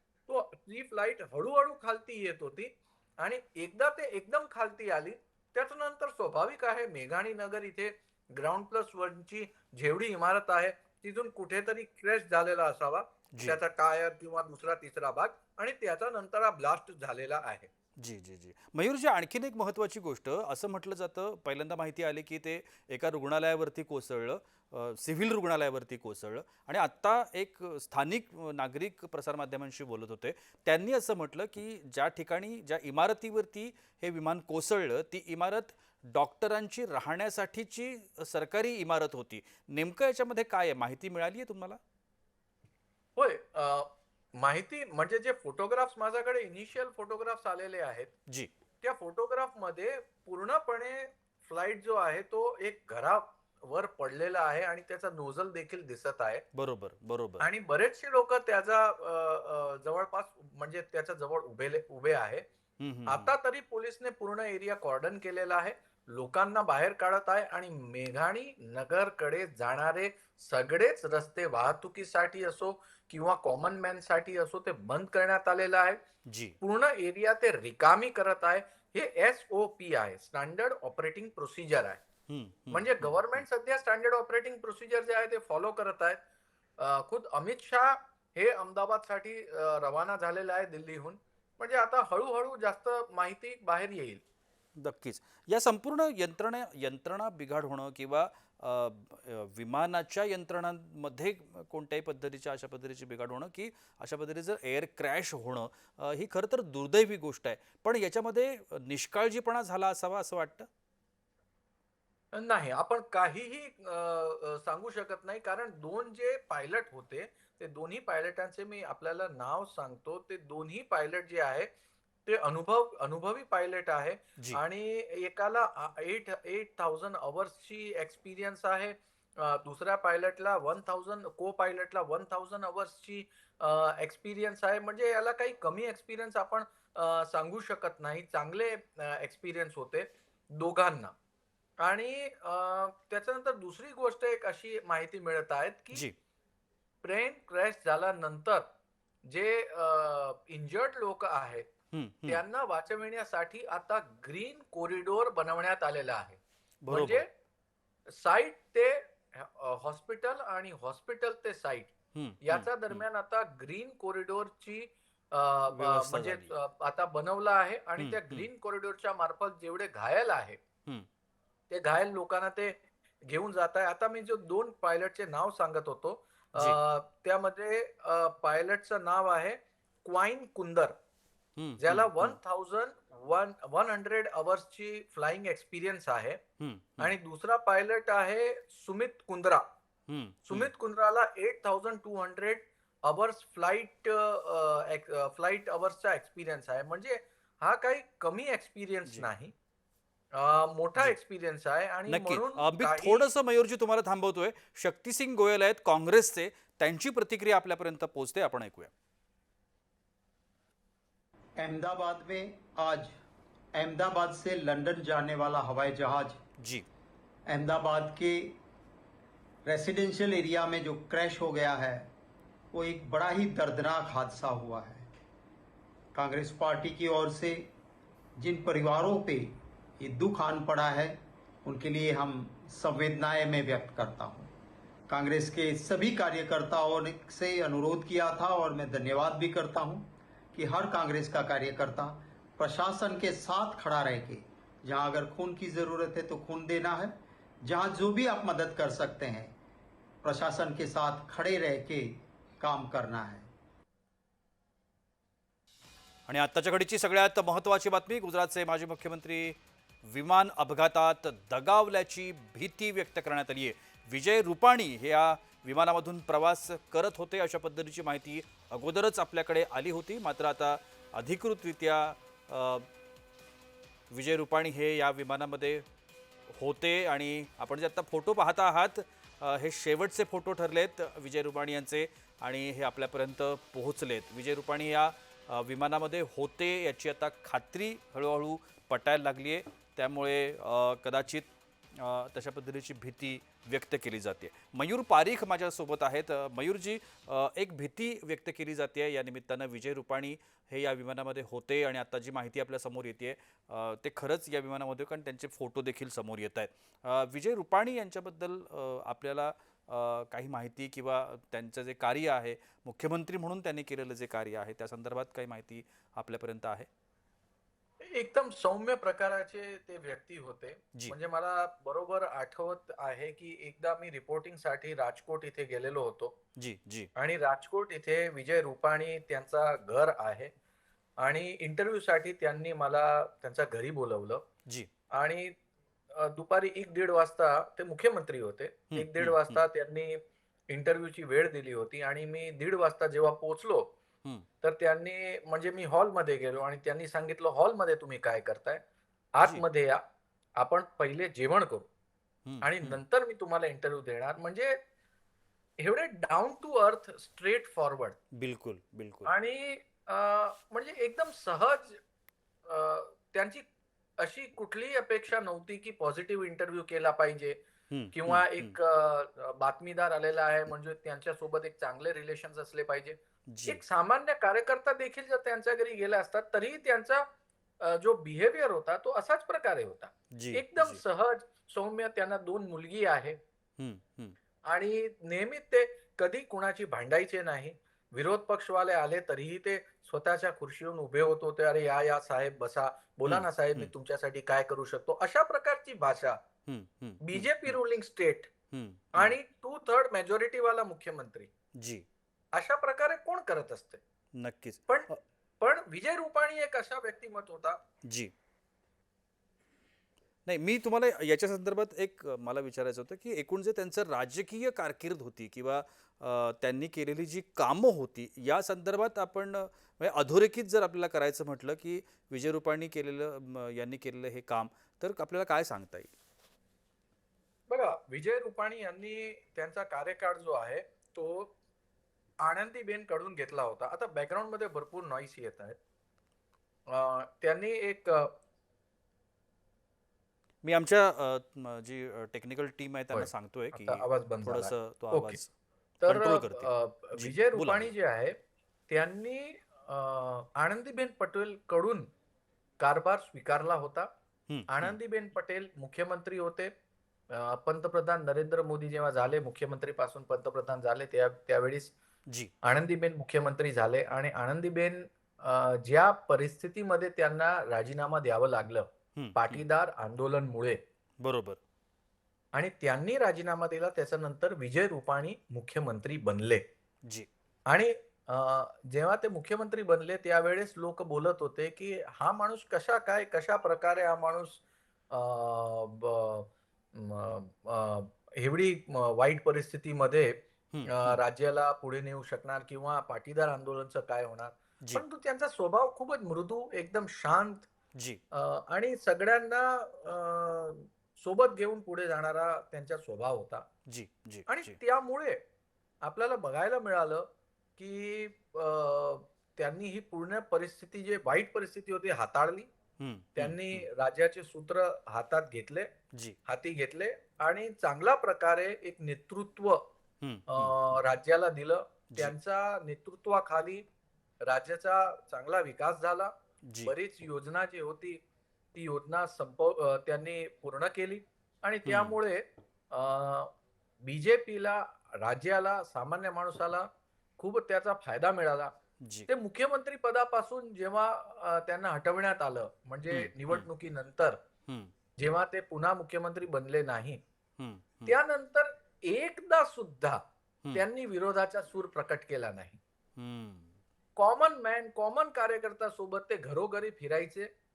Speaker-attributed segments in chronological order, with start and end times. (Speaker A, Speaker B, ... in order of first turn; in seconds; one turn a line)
Speaker A: 0.3-17.7
Speaker B: 13.3-13.6
Speaker B: 18.0-41.8
Speaker A: 43.2-48.1
Speaker A: 48.8-56.4
Speaker B: 56.5-57.5
Speaker A: 57.4-62.5
Speaker B: 62.8-63.3
Speaker A: 63.1-76.0
Speaker B: 76.3-76.6
Speaker A: 76.6-82.0
Speaker B: 82.3-83.2
Speaker A: 82.7-86.2
Speaker A: 86.8-94.2
Speaker B: 94.8-110.7
Speaker A: 112.3-121.7
Speaker A: 122.3-141.2
Speaker A: 141.8-146.1
Speaker A: 147.0-148.7
Speaker A: 149.2-151.7
Speaker B: 151.9-152.4
Speaker A: 152.3-157.3
Speaker B: 156.8-157.2
Speaker A: 158.1-170.6
Speaker B: 162.1-163.0
Speaker B: 165.7-166.5
Speaker B: 168.0-168.5
Speaker A: 171.7-181.0
Speaker B: 181.6-182.4
Speaker A: 181.8-186.4
Speaker B: 186.6-187.1
Speaker A: 187.0-189.7
Speaker B: 190.1-190.7
Speaker A: 190.5-199.5
Speaker A: 200.3-203.3
Speaker B: 202.1-208.9
Speaker C: 211.6-213.1
Speaker C: 213.7-216.4
Speaker B: 216.6-216.9
Speaker C: 217.5-218.6
Speaker C: 219.7-222.1
Speaker C: 222.7-225.1
Speaker C: 226.1-227.7
Speaker C: 228.4-234.5
Speaker C: 235.1-247.1
Speaker C: 247.6-249.5
Speaker C: 250.2-253.5
Speaker B: 256.3-272.9
Speaker B: 274.1-275.9
Speaker B: 276.5-316.9
Speaker A: 318.0-326.4
Speaker B: 326.6-327.1
Speaker A: 327.2-330.5
Speaker A: 331.2-334.4
Speaker A: 335.1-335.6
Speaker A: 336.1-343.9
Speaker B: 338.9-339.6
Speaker A: 344.6-348.8
Speaker A: 349.4-350.0
Speaker A: 350.6-351.9
Speaker B: 352.5-353.0
Speaker A: 352.6-354.8
Speaker A: 355.8-358.2
Speaker B: 358.4-359.3
Speaker A: 359.3-362.0
Speaker A: 362.7-363.6
Speaker A: 364.2-367.6
Speaker B: 367.9-368.8
Speaker A: 368.1-377.3
Speaker B: 373.5-373.8
Speaker A: 377.8-383.4
Speaker B: 380.3-381.0
Speaker B: 383.8-384.4
Speaker A: 384.7-396.4
Speaker B: 393.3-393.9
Speaker B: 396.7-397.8
Speaker A: 397.2-398.5
Speaker B: 398.7-399.4
Speaker A: 399.1-401.5
Speaker B: 401.8-402.1
Speaker A: 402.5-404.0
Speaker B: 404.4-405.2
Speaker A: 405.6-407.8
Speaker B: 408.0-408.3
Speaker B: 410.5-426.1
Speaker A: 427.7-431.5
Speaker A: 432.4-435.8
Speaker A: 436.9-438.3
Speaker B: 440.6-445.5
Speaker A: 443.1-445.4
Speaker A: 446.0-448.4
Speaker B: 446.1-447.9
Speaker A: 448.9-452.1
Speaker A: 452.8-454.1
Speaker B: 454.5-455.0
Speaker A: 454.7-456.7
Speaker A: 457.3-461.9
Speaker A: 462.6-470.8
Speaker B: 469.2-469.6
Speaker B: 471.2-471.6
Speaker A: 472.5-476.6
Speaker A: 477.7-497.7
Speaker B: 490.7-491.2
Speaker B: 497.9-498.2
Speaker A: 498.3-503.7
Speaker B: 503.9-504.8
Speaker A: 504.5-505.4
Speaker A: 506.0-512.7
Speaker B: 513.0-513.9
Speaker A: 513.4-515.9
Speaker A: 516.5-519.8
Speaker B: 520.2-520.7
Speaker A: 520.5-523.8
Speaker A: 524.4-526.3
Speaker B: 526.7-526.9
Speaker A: 526.9-528.2
Speaker A: 528.7-533.5
Speaker B: 531.9-532.2
Speaker A: 534.0-538.7
Speaker B: 539.0-539.3
Speaker A: 539.3-544.4
Speaker B: 543.1-543.7
Speaker B: 544.7-544.9
Speaker A: 545.2-547.2
Speaker B: 547.6-548.2
Speaker A: 548.1-550.2
Speaker A: 550.7-552.8
Speaker B: 553.2-553.8
Speaker A: 554.2-557.5